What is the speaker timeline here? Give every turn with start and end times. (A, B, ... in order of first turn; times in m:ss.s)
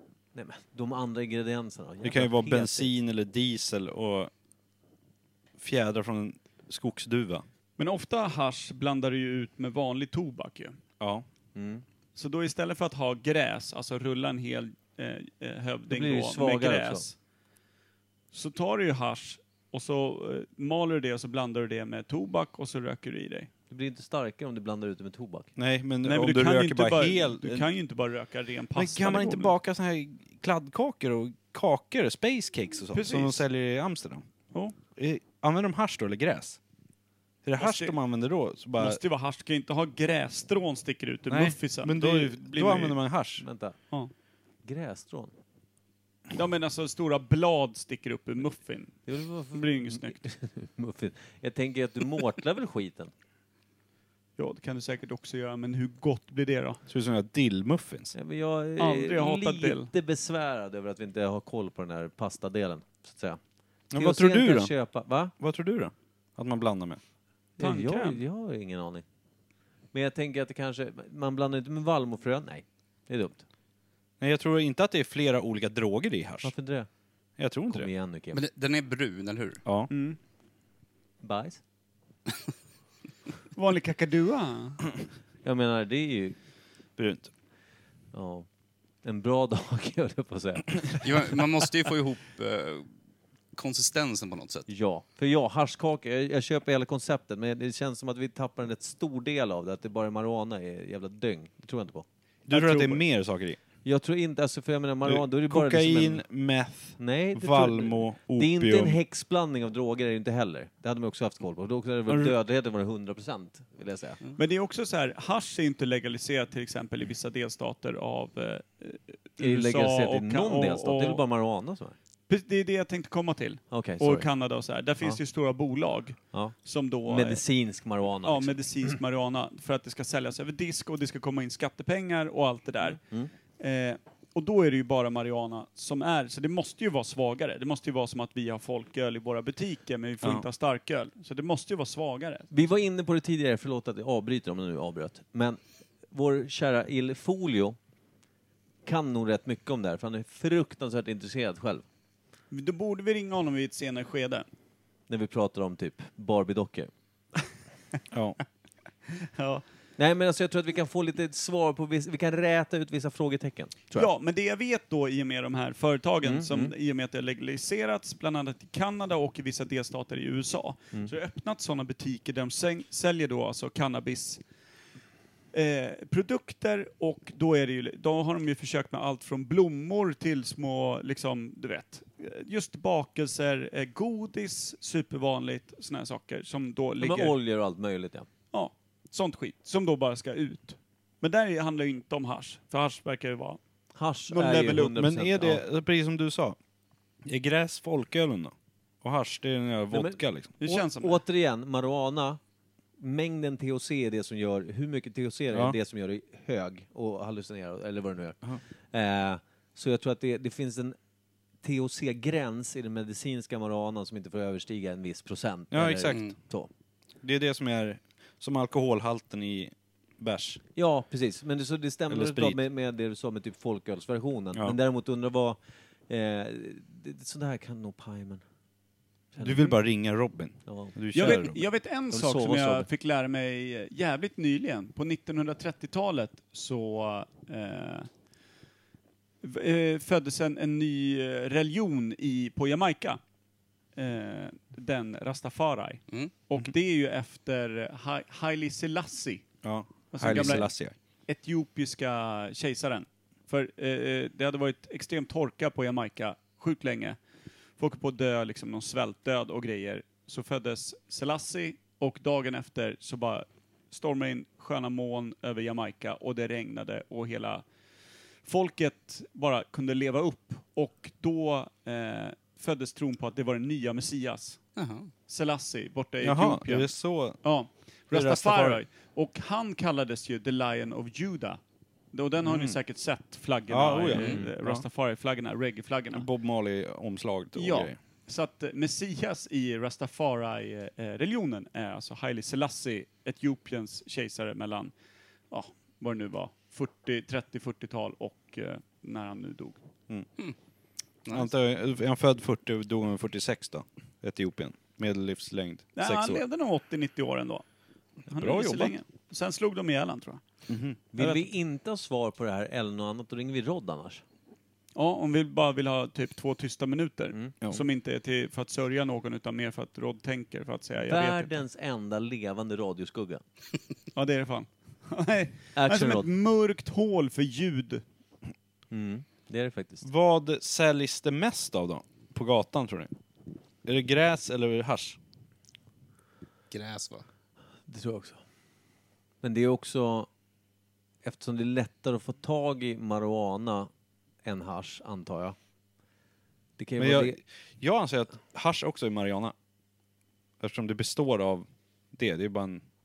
0:00.4-0:02.9 A
0:02.0-0:04.3 B
0:05.6-0:07.4 B
0:07.8-0:10.8 C
0:11.0-0:11.2 B
0:11.6-0:11.8 A
0:12.2-0:17.2 C
0:15.9-0:17.1 A
0:18.3-0:23.5 C
0:23.7-0:25.5 A
0:25.6-0:27.7 B
0:26.0-0:29.5 C
0:28.8-0:34.3 B
0:32.9-0:33.4 C
0:34.9-0:36.6 B
0:37.4-0:39.0 B
0:37.6-0:38.0 C
0:38.8-0:43.0 C
0:41.3-0:43.4 B
0:43.4-0:43.8 A
0:44.6-0:45.3 A
0:46.3-0:50.2 C
0:49.1-0:53.1 A
0:54.4-0:56.8 C
0:56.9-0:58.1 B
0:58.2-1:03.4 A
0:58.8-0:59.9 C
1:03.9-1:04.7 B
1:03.9-1:05.3 A
1:05.4-1:07.0 B
1:07.6-1:08.2 C
1:07.6-1:09.0 A
1:09.9-1:13.4 A
1:14.2-1:16.6 B
1:16.4-1:16.9 A
1:17.4-1:17.9 B
1:17.7-1:18.4 A
1:18.3-1:19.6 D
1:19.6-1:19.9 B
1:19.9-1:20.2 C
1:21.2-1:21.6 A
1:23.6-1:24.8 C
1:25.4-1:26.4 A
1:27.0-1:27.3 B
1:28.1-1:28.5 A
1:29.0-1:31.4 A
1:31.0-1:32.9 D
1:33.5-1:34.7 D
1:34.7-1:43.0 A
1:42.5-1:43.6 B
1:43.8-1:46.2 A
1:45.0-1:49.0 B
1:47.0-1:54.2 A
1:52.1-1:52.3 C
1:54.4-2:01.2 C
1:59.4-2:02.0 A
2:02.3-2:07.4 C
2:03.7-2:04.3 A
2:07.1-2:08.6 A
2:08.2-2:13.0 C
2:12.8-2:13.3 A
2:13.6-2:22.5 C
2:22.5-2:27.8 A
2:28.8-2:31.8 A
2:32.5-2:34.5 C
2:35.1-2:36.9 A
2:38.1-2:38.4 B
2:39.2-2:39.6 C
2:40.0-2:44.1 A
2:44.0-2:54.4 C
2:46.2-2:46.7 A
2:55.5-3:07.4 C
3:07.0-3:08.3 A
3:08.5-3:13.6 C
3:14.0-3:15.6 A
3:14.3-3:14.9 C
3:14.8-3:16.6 B
3:17.2-3:20.5 B
3:19.9-3:22.4 A
3:20.6-3:21.2 C
3:23.0-3:28.4 A
3:28.9-3:31.0 A
3:31.6-3:36.7 A
3:35.7-3:36.3 B
3:37.2-3:40.6 B
3:40.8-3:48.4 A
3:42.1-3:42.6 B
3:49.3-3:49.8 A
3:49.4-3:51.6 B
3:50.7-3:52.9 A
3:51.1-3:58.1 C
3:59.4-4:03.2 C
4:04.0-4:09.5 C
4:09.6-4:10.9 B
4:10.1-4:10.7 C
4:11.3-4:17.2 C
4:17.8-4:27.7 C
4:28.4-4:34.6 C
4:34.8-4:35.1 D
4:35.3-4:41.6 C
4:36.2-4:38.8 B
4:42.1-4:46.3 C
4:42.4-4:42.8 B
4:43.7-4:44.8 B
4:44.1-4:44.4 D
4:46.1-4:48.0 B
4:47.5-4:54.9 C
4:55.5-4:59.8 C
5:01.3-5:06.4 B
5:06.0-5:07.6 C
5:08.3-5:10.4 C
5:08.3-5:08.9 B
5:10.7-5:11.0 B
5:11.1-5:14.2 A
5:11.2-5:11.5 C
5:15.0-5:21.6 C
5:21.1-5:23.4 A
5:24.2-5:28.0 C
5:25.8-5:26.3 A
5:28.9-5:30.0 A
5:30.0-5:33.1 B
5:33.8-5:35.2 B
5:36.7-5:37.2 D
5:37.9-5:38.4 A
5:39.4-5:40.3 A
5:41.2-5:43.9 A
5:44.4-5:45.6 A
5:46.8-5:47.4 A
5:47.0-5:49.6 B
5:50.6-5:52.8 B